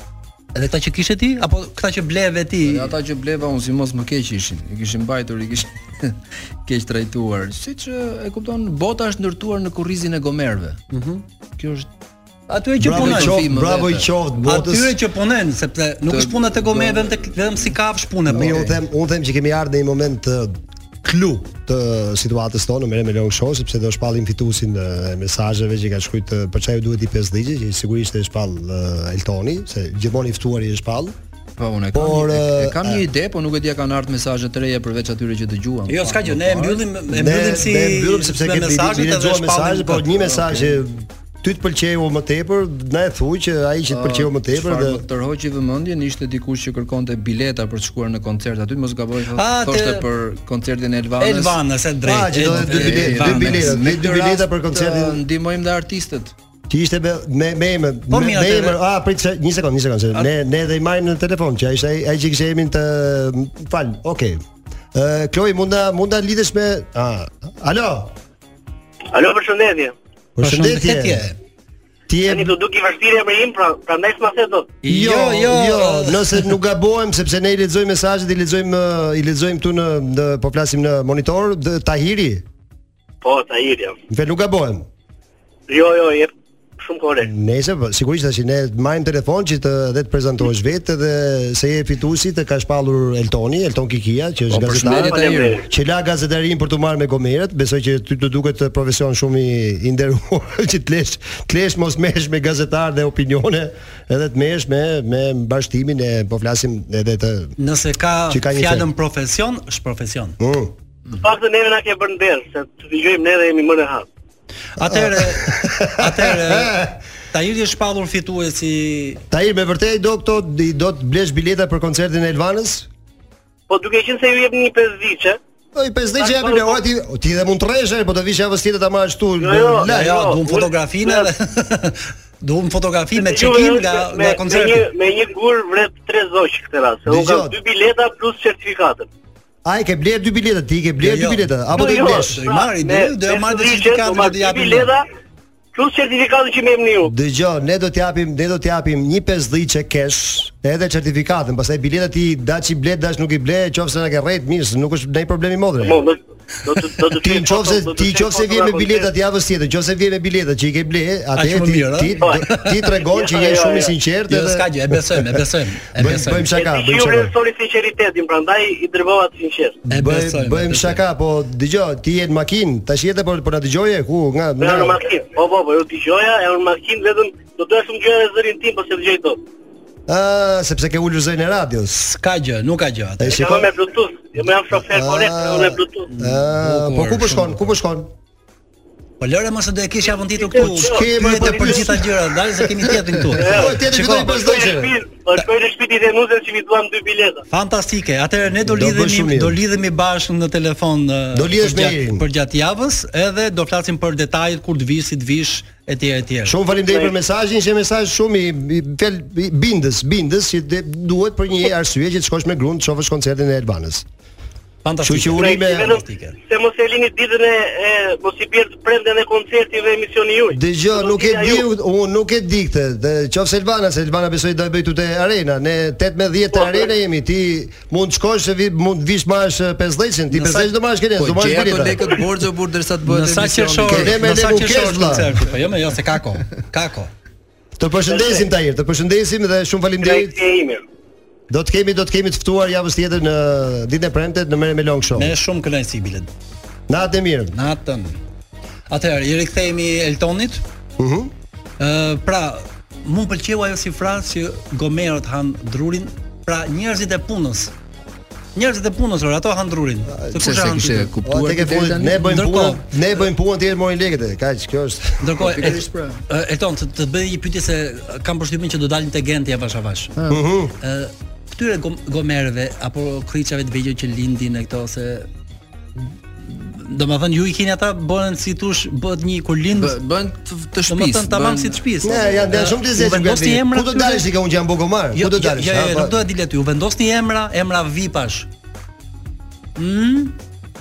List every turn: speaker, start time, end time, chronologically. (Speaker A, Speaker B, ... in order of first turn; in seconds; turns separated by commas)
Speaker A: 0.6-2.9, Speaker B: 2.6-10.8, Speaker A: 10.9-11.2, Speaker B: 11.6-11.9, Speaker A: 12.5-13.5, Speaker C: 12.8-15.0, Speaker B: 12.8-14.1, Speaker A: 14.4-18.8, Speaker B: 16.1-17.0, Speaker C: 18.3-31.2, Speaker B: 31.6-36.8, Speaker C: 31.9-33.0, Speaker A: 35.9-40.2, Speaker C: 37.1-45.0, Speaker B: 40.1-40.8, Speaker B: 43.9-51.6, Speaker A: 49.3-50.1, Speaker A: 51.2-53.8, Speaker C: 52.0-55.2, Speaker B: 52.6-56.3, Speaker C: 56.7-64.4, Speaker A: 58.1-58.8, Speaker C: 64.9-68.1, Speaker D: 69.1-70.0, Speaker C: 70.4-71.3, Speaker A: 70.4-71.3, Speaker C: 72.1-72.6, Speaker D: 72.3-74.8, Speaker A: 74.8-76.5, Speaker C: 74.8-82.5, Speaker D: 83.2-84.0, Speaker C: 84.1-84.9, Speaker D: 85.7-87.3, Speaker C: 87.2-107.5, Speaker B: 94.5-95.6, Speaker D: 94.8-95.7, Speaker A: 107.6-110.4, Speaker C: 108.3-108.9, Speaker C: 110.4-110.7, Speaker D: 111.2-114.1, Speaker A: 114.8-119.2, Speaker C: 114.8-116.9, Speaker C: 119.3-122.9, Speaker D: 123.7-125.4, Speaker C: 125.7-130.4, Speaker D: 126.2-126.8, Speaker D: 129.4-131.3, Speaker A: 129.8-134.9, Speaker D: 133.1-139.1, Speaker C: 137.1-137.6, Speaker C: 139.7-142.4, Speaker A: 141.0-144.9, Speaker D: 141.8-145.0, Speaker D: 145.7-147.1, Speaker C: 147.0-156.0, Speaker D: 155.8-159.1, Speaker C: 157.0-167.3, Speaker A: 161.3-162.8, Speaker D: 162.2-164.0, Speaker A: 164.3-166.5, Speaker D: 166.4-169.8, Speaker C: 169.9-175.0, Speaker A: 169.9-171.0, Speaker D: 174.6-179.4, Speaker C: 180.1-181.9, Speaker A: 181.9-183.5, Speaker C: 183.2-183.7, Speaker D: 183.3-186.1, Speaker C: 184.7-188.1, Speaker A: 186.1-187.6, Speaker A: 189.2-194.5, Speaker D: 190.4-191.8, Speaker C: 190.5-192.2, Speaker C: 192.9-195.0, Speaker D: 193.4-197.4, Speaker A: 197.5-206.6, Speaker C: 198.6-199.6, Speaker C: 201.3-202.3, Speaker C: 206.4-214.1, Speaker D: 206.8-207.2, Speaker A: 214.8-216.4, Speaker C: 215.0-216.0, Speaker D: 215.3-221.7, Speaker C: 220.5-232.3, Speaker D: 226.6-226.8, Speaker A: 230.3-230.7, Speaker B: 231.2-234.2, Speaker A: 233.0-237.1, Speaker C: 233.8-235.4, Speaker C: 237.8-240.4, Speaker D: 238.1-238.5, Speaker D: 240.0-240.8, Speaker C: 241.5-245.3, Speaker A: 245.2-246.3, Speaker C: 246.9-247.6, Speaker A: 247.5-248.2, Speaker A: 248.9-250.6, Speaker C: 251.0-251.3, Speaker A: 251.8-257.7, Speaker A: 258.6-261.1, Speaker C: 260.1-260.4, Speaker B: 260.4-262.4, Speaker C: 261.2-265.3, Speaker A: 262.2-262.9, Speaker A: 265.2-270.2, Speaker B: 265.4-266.2, Speaker B: 270.2-270.5, Speaker C: 270.3-270.7, Speaker A: 270.8-275.3, Speaker A: 276.4-280.0, Speaker B: 279.8-281.8, Speaker A: 280.9-284.3, Speaker C: 282.0-286.1, Speaker A: 285.1-288.5, Speaker A: 289.8-290.4